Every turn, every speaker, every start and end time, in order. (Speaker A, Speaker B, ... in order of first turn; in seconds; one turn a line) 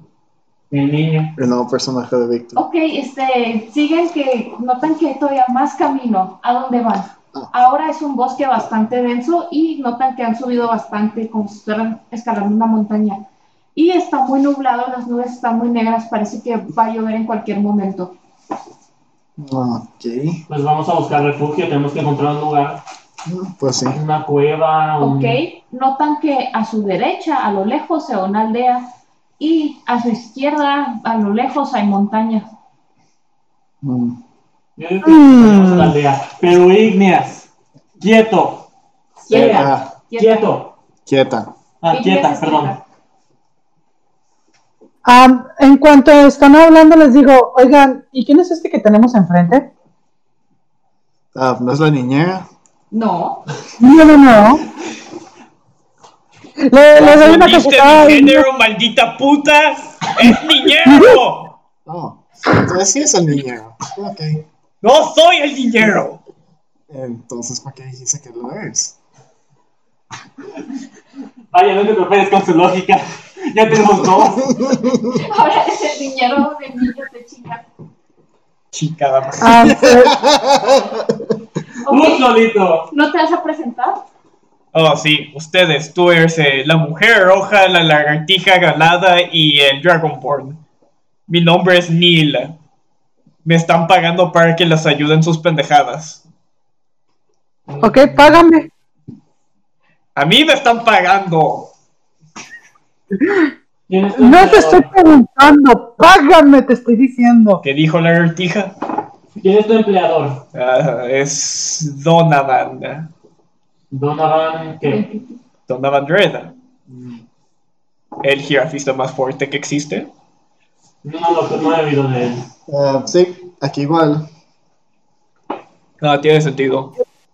Speaker A: 0.7-1.3
Speaker B: 1.4-2.6
Speaker C: 2.6-18.2
Speaker B: 19.4-20.4
Speaker A: 20.5-22.8
Speaker B: 23.2-24.0
Speaker A: 23.9-25.4
Speaker C: 25.0-32.5
Speaker B: 33.8-34.2
Speaker A: 34.8-37.5
Speaker D: 35.0-35.9
Speaker A: 38.0-38.7
Speaker A: 39.2-40.7
Speaker C: 39.3-40.5
Speaker B: 39.3-39.9
Speaker B: 41.1-41.5
Speaker A: 41.8-42.7
Speaker C: 41.9-42.8
Speaker D: 45.0-49.7
Speaker B: 51.3-52.5
Speaker C: 52.9-53.5
Speaker D: 53.8-54.6
Speaker D: 56.7-58.4
Speaker E: 57.0-61.5
Speaker B: 61.9-64.4
Speaker E: 64.8-66.2
Speaker B: 66.9-69.0
Speaker A: 71.5-74.6
Speaker B: 74.0-75.2
Speaker C: 75.1-77.7
Speaker E: 78.7-79.7
Speaker D: 79.4-80.2
Speaker B: 79.6-81.4
Speaker C: 81.8-82.3
Speaker A: 81.9-82.9
Speaker C: 82.9-84.0
Speaker E: 84.7-90.6
Speaker E: 91.3-92.6
Speaker E: 93.5-96.2
Speaker A: 97.7-98.4
Speaker D: 97.8-98.7
Speaker E: 100.2-101.7
Speaker D: 103.2-103.5
Speaker A: 103.9-104.9
Speaker D: 104.2-107.6
Speaker E: 107.6-108.8
Speaker A: 109.4-110.4
Speaker E: 110.5-113.1
Speaker A: 113.9-115.0
Speaker C: 114.8-115.4
Speaker E: 115.7-116.5
Speaker B: 116.9-117.2
Speaker E: 118.2-120.1
Speaker A: 121.0-122.5
Speaker B: 122.7-124.3
Speaker E: 126.0-126.9